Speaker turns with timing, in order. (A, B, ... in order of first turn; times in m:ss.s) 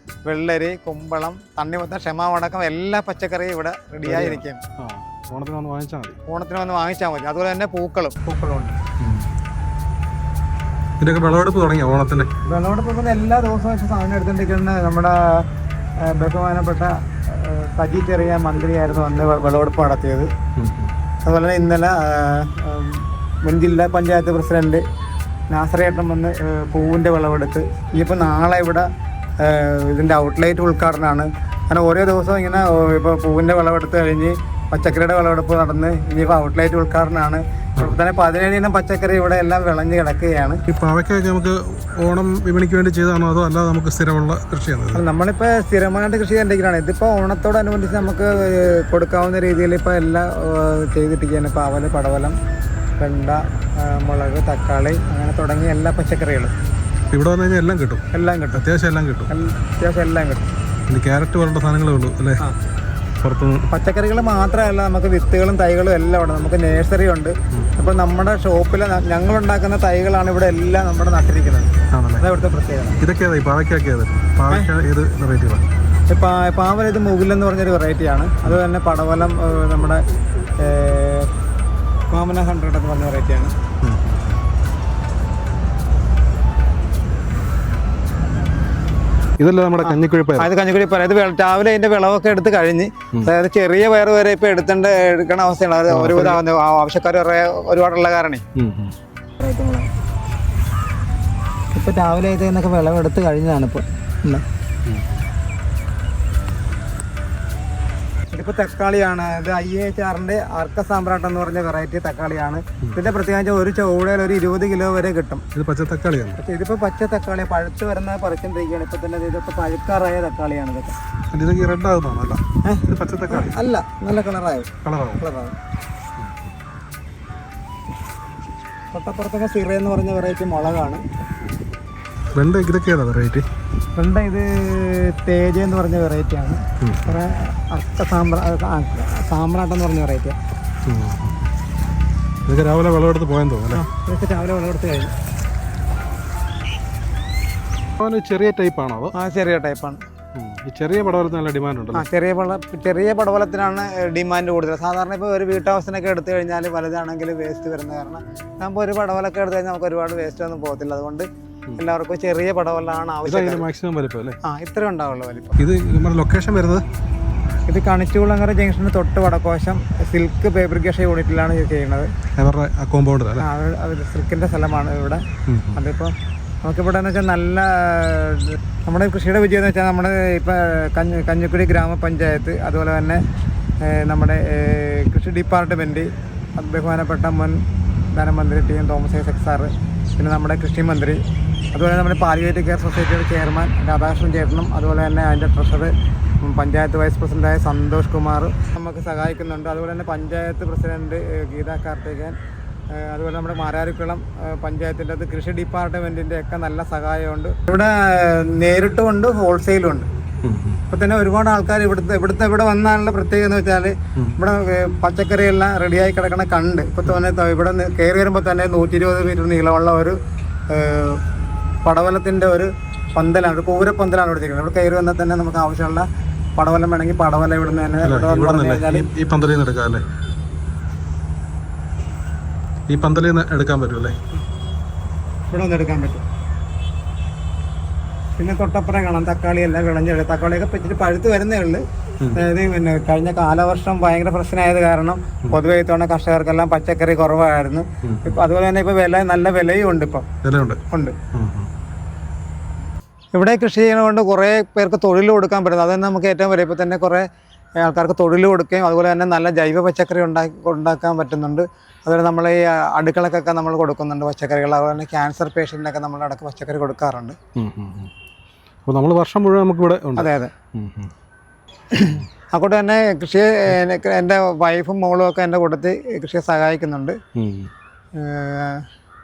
0:00.3-0:04.6 A
0:04.0-0:06.2 B
0:06.3-0:08.8 A
0:09.0-0:09.3 B
0:11.0-0:12.3 B
0:12.4-0:15.5 A
0:16.0-0:20.3 A
0:20.6-0:20.9 B
0:21.2-0:24.8 A
0:25.5-0:28.9 A
0:29.4-0:40.6 A
0:40.7-0:45.0 B
0:44.9-0:52.4 A
0:53.0-0:56.5 A
0:57.1-0:59.3 B
0:58.1-0:58.7 A
0:59.3-1:00.5 A
1:00.9-1:02.4 B
1:03.2-1:03.7 B
1:03.7-1:13.0 A
1:11.9-1:12.3 B
1:13.0-1:15.6 B
1:16.1-1:20.0 A
1:20.6-1:21.3 A
1:22.1-1:23.5 A
1:23.8-1:24.4 B
1:29.4-1:30.5 B
1:29.8-1:38.4 A
1:35.9-1:36.4 B
1:38.6-1:39.0 B
1:39.4-1:39.9 A
1:41.7-1:44.4 A
1:48.3-1:55.4 A
1:55.5-1:56.4 B
1:56.4-2:01.0 A
2:01.3-2:03.6 B
2:02.6-2:05.6 A
2:04.8-2:05.2 B
2:08.9-2:11.0 A
2:12.4-2:13.5 B
2:14.0-2:20.4 A
2:16.8-2:17.1 B
2:20.9-2:21.3 B
2:22.5-2:23.8 B
2:23.7-2:25.1 A
2:28.0-2:29.1 B
2:29.1-2:30.0 A
2:30.4-2:32.1 B
2:31.9-2:41.3 A
2:41.8-2:43.7 A
2:43.2-2:44.4 B
2:44.4-2:45.6 A
2:45.6-2:46.8 B
2:47.7-2:52.1 A
2:52.4-2:53.5 B
2:53.4-3:03.2 A
2:55.5-2:55.8 B
3:03.8-3:22.4 A
3:22.9-3:30.1 A
3:30.4-3:30.8 B
3:30.9-3:40.2 A
3:40.7-3:41.2 A
3:41.8-3:46.1 A
3:46.6-3:49.1 A
3:48.0-3:50.0 B
3:52.9-3:54.2 B
3:55.5-3:56.2 A
3:58.4-4:10.3 A
4:08.0-4:08.4 B
4:10.4-4:10.8 B
4:10.9-4:11.2 A
4:11.3-4:11.7 B
4:13.3-4:17.2 A
4:17.8-4:27.4 A
4:27.6-4:28.1 B
4:28.9-4:31.1 B
4:30.2-4:30.5 A
4:31.9-4:37.2 A
4:37.4-4:37.7 B
4:38.2-4:38.9 A